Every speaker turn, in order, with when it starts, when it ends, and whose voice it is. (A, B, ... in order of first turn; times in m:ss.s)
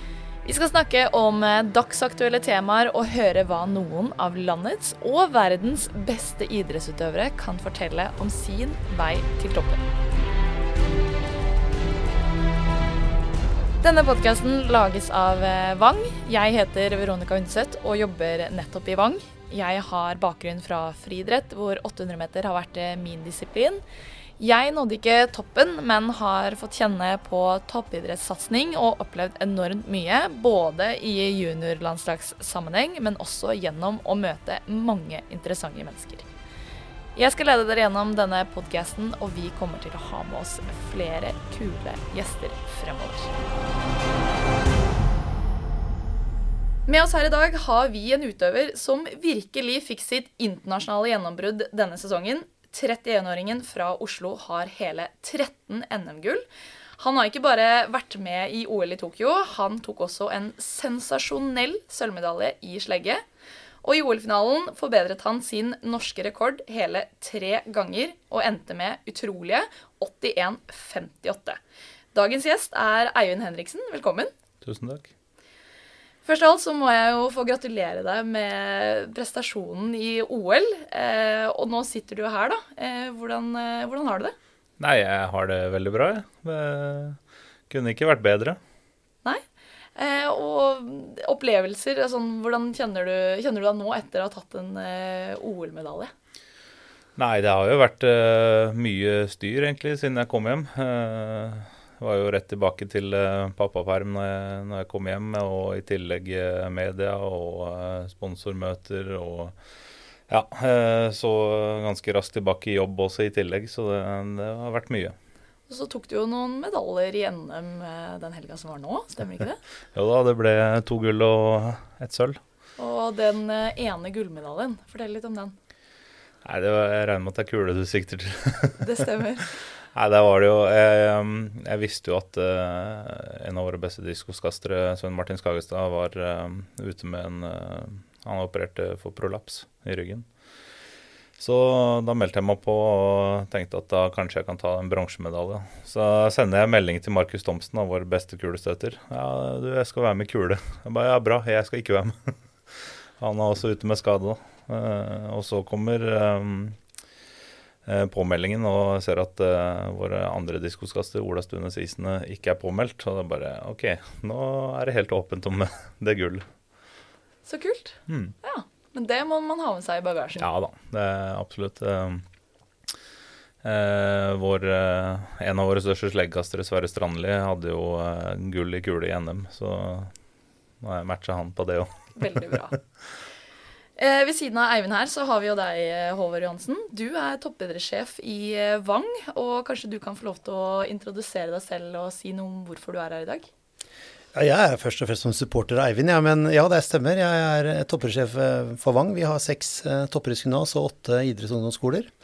0:00.4-0:09.8 A
0:13.8-0:23.8 A
0:24.4-0:36.3 A
0:37.2-0:43.3 A
0:46.9-0:56.4 A
0:57.0-1:03.2 A
1:03.8-1:11.6 A
1:12.1-1:14.3 A
1:14.6-1:15.1 B
1:16.2-1:24.4 A
1:24.8-1:27.2 B
1:27.7-1:28.6 B
1:30.0-1:36.1 A
1:37.2-1:49.6 B
1:50.3-1:55.2 B
1:55.7-1:59.6 A
2:00.0-2:02.4 B
2:02.8-2:05.6 A
2:06.4-2:08.9 B
2:08.8-2:09.5 A
2:09.9-2:20.3 B
2:21.4-2:36.8 B
2:37.8-2:46.5 B
2:47.5-2:50.5 A
2:48.1-2:48.4 B
2:50.4-2:52.2 B
2:53.6-3:00.1 B
3:00.8-3:02.8 B
3:02.2-3:02.8 A
3:04.0-3:13.5 A
3:14.3-3:22.1 C